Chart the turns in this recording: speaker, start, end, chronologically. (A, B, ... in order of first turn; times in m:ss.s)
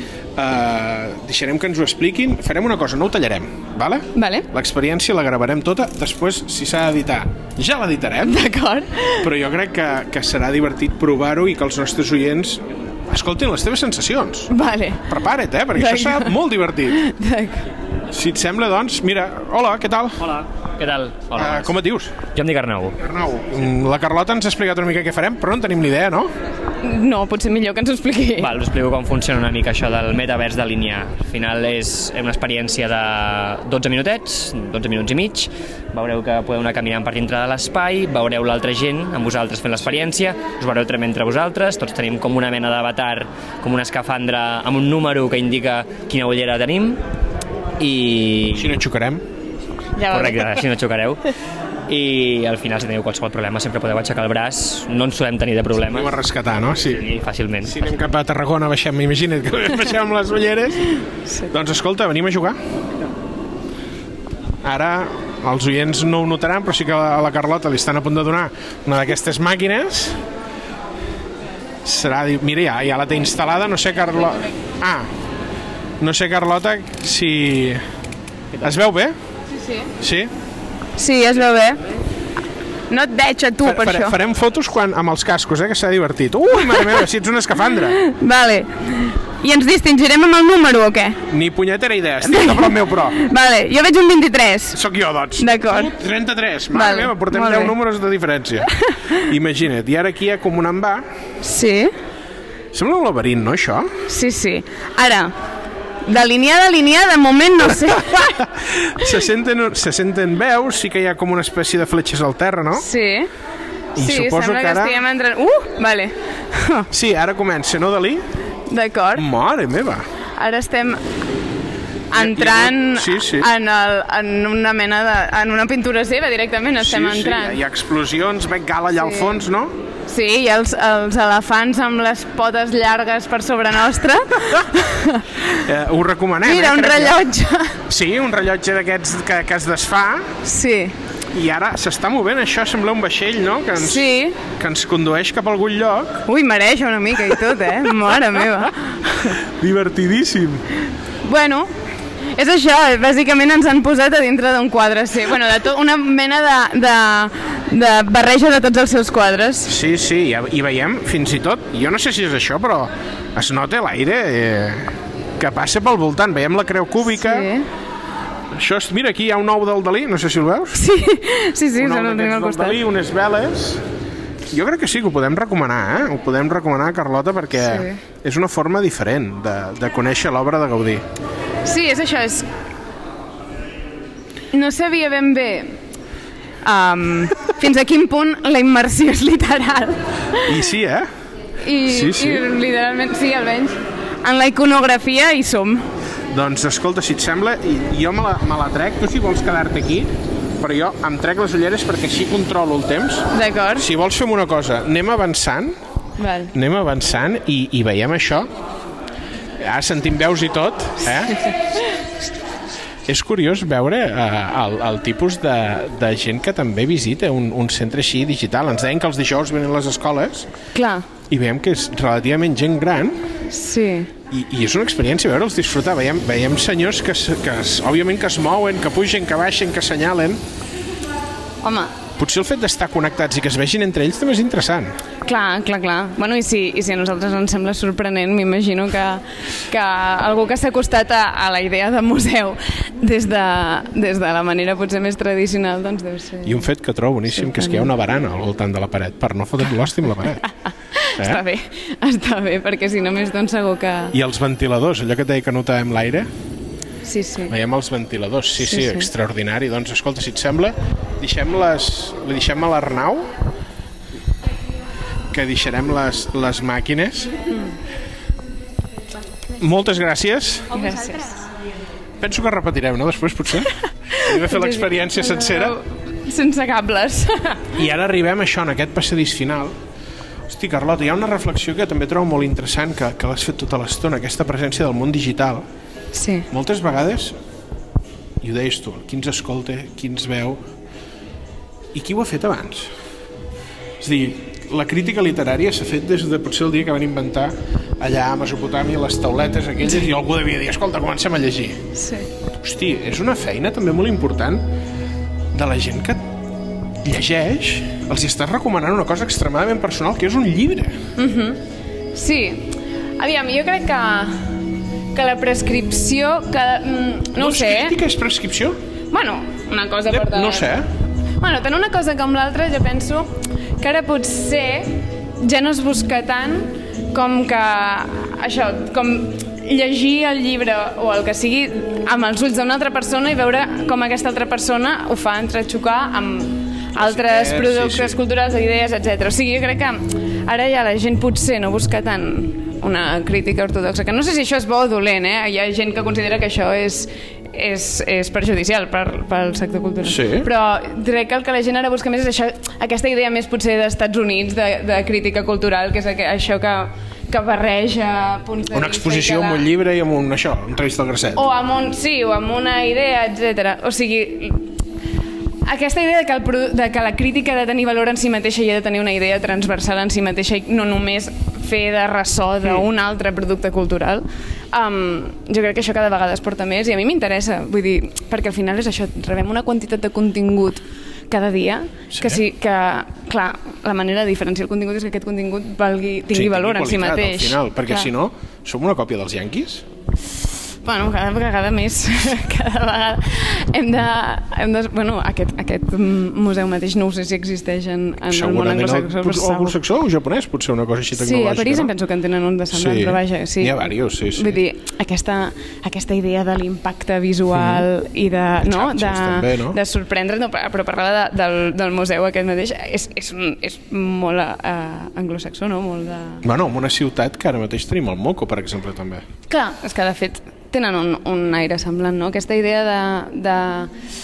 0:00.4-0:08.4 A
0:04.1-0:04.5 B
0:08.2-0:09.3 B
0:09.2-0:17.0 A
0:14.5-0:15.1 B
0:15.8-0:17.7 B
0:18.1-0:20.4 A
0:20.3-0:21.7 C
0:21.4-0:22.2 A
0:22.3-0:23.0 C
0:23.0-0:26.3 A
0:26.8-0:28.5 B
0:28.4-0:47.0 C
0:47.8-0:48.7 C
0:48.5-0:49.2 A
0:50.0-0:50.6 B
0:50.1-0:51.2 C
0:51.9-0:56.1 C
0:55.9-0:57.1 A
0:57.0-0:57.8 C
0:57.6-1:02.6 A
1:04.6-1:10.2 A
1:11.8-1:15.1 A
1:16.0-1:17.8 A
1:18.6-1:19.2 A
1:20.0-1:20.3 A
1:21.0-1:21.8 B
1:22.9-1:24.2 B
1:23.6-1:28.0 A
1:26.7-1:27.0 B
1:27.9-1:31.2 B
1:31.3-1:33.2 A
1:32.2-1:34.8 B
1:34.7-1:41.1 A
1:35.4-1:35.9 B
1:36.7-1:37.8 B
1:38.8-1:39.3 B
1:41.4-1:41.9 B
1:42.7-1:44.0 A
1:44.1-1:45.3 B
1:46.1-1:48.4 B
1:48.1-1:52.9 A
1:52.8-1:53.3 B
1:54.0-1:55.0 A
1:54.0-1:56.9 B
1:56.9-1:58.2 A
1:58.7-1:59.3 B
1:59.2-2:00.1 A
2:00.4-2:01.0 B
2:02.1-2:07.6 B
2:02.2-2:03.5 A
2:06.8-2:09.7 A
2:09.0-2:09.3 B
2:10.1-2:15.6 B
2:15.5-2:17.2 A
2:16.4-2:17.8 B
2:17.9-2:20.3 A
2:20.4-2:21.0 B
2:21.3-2:26.2 A
2:23.8-2:24.4 B
2:26.3-2:29.4 B
2:29.4-2:30.6 A
2:31.2-2:31.7 B
2:32.4-2:39.7 B
2:39.7-2:47.5 A
2:47.2-2:47.7 B
2:48.5-2:50.8 A
2:50.7-2:52.8 B
2:51.8-2:53.8 A
2:54.5-3:01.0 A
2:57.6-2:58.0 B
3:01.6-3:02.5 B
3:04.5-3:05.8 B
3:06.6-3:10.6 B
3:10.4-3:11.1 A
3:11.6-3:15.9 B
3:11.8-3:12.5 A
3:16.3-3:25.8 A
3:23.3-3:23.9 B
3:26.2-3:26.5 B
3:26.5-3:28.5 A
3:29.6-3:31.5 A
3:33.1-3:40.5 A
3:40.8-3:41.1 B
3:41.3-3:43.3 A
3:43.5-3:44.1 B
3:44.3-3:50.4 A
3:51.6-3:51.9 B
3:52.2-3:54.9 A
3:55.3-4:06.6 B
4:06.4-4:10.4 A
4:07.3-4:07.9 B
4:10.4-4:14.2 B
4:11.2-4:11.4 A
4:14.1-4:16.3 A
4:17.0-4:17.5 B
4:17.5-4:23.3 A
4:18.6-4:19.1 B
4:25.3-4:27.4 A
4:29.6-4:30.9 A
4:30.7-4:31.4 B
4:32.2-4:35.8 A
4:33.7-4:37.8 B
4:37.8-4:39.8 A
4:40.5-4:45.6 A
4:46.1-4:46.5 B
4:46.5-4:47.4 A
4:48.4-4:50.6 A
4:51.9-4:52.9 A
4:54.0-5:01.9 A
5:02.0-5:02.3 B
5:02.6-5:04.6 A
5:05.5-5:06.3 A
5:07.0-5:11.1 A
5:11.2-5:11.6 B
5:12.1-5:14.6 B
5:15.1-5:18.0 B
5:17.4-5:18.8 A
5:19.1-5:20.7 B
5:20.1-5:20.9 A
5:21.4-5:59.6 B
5:37.0-5:38.2 A
5:50.0-5:50.5 A
5:58.7-6:01.4 A
6:01.4-6:04.7 B
6:05.6-6:28.1 B
6:22.1-6:22.4 A
6:26.3-6:29.8 A
6:30.8-6:39.8 B
6:38.3-6:41.9 A
6:41.2-6:56.4 B
6:42.7-6:44.6 A
6:47.5-6:47.9 A
6:48.6-6:49.8 A
6:56.4-6:59.2 A
6:59.5-7:03.9 B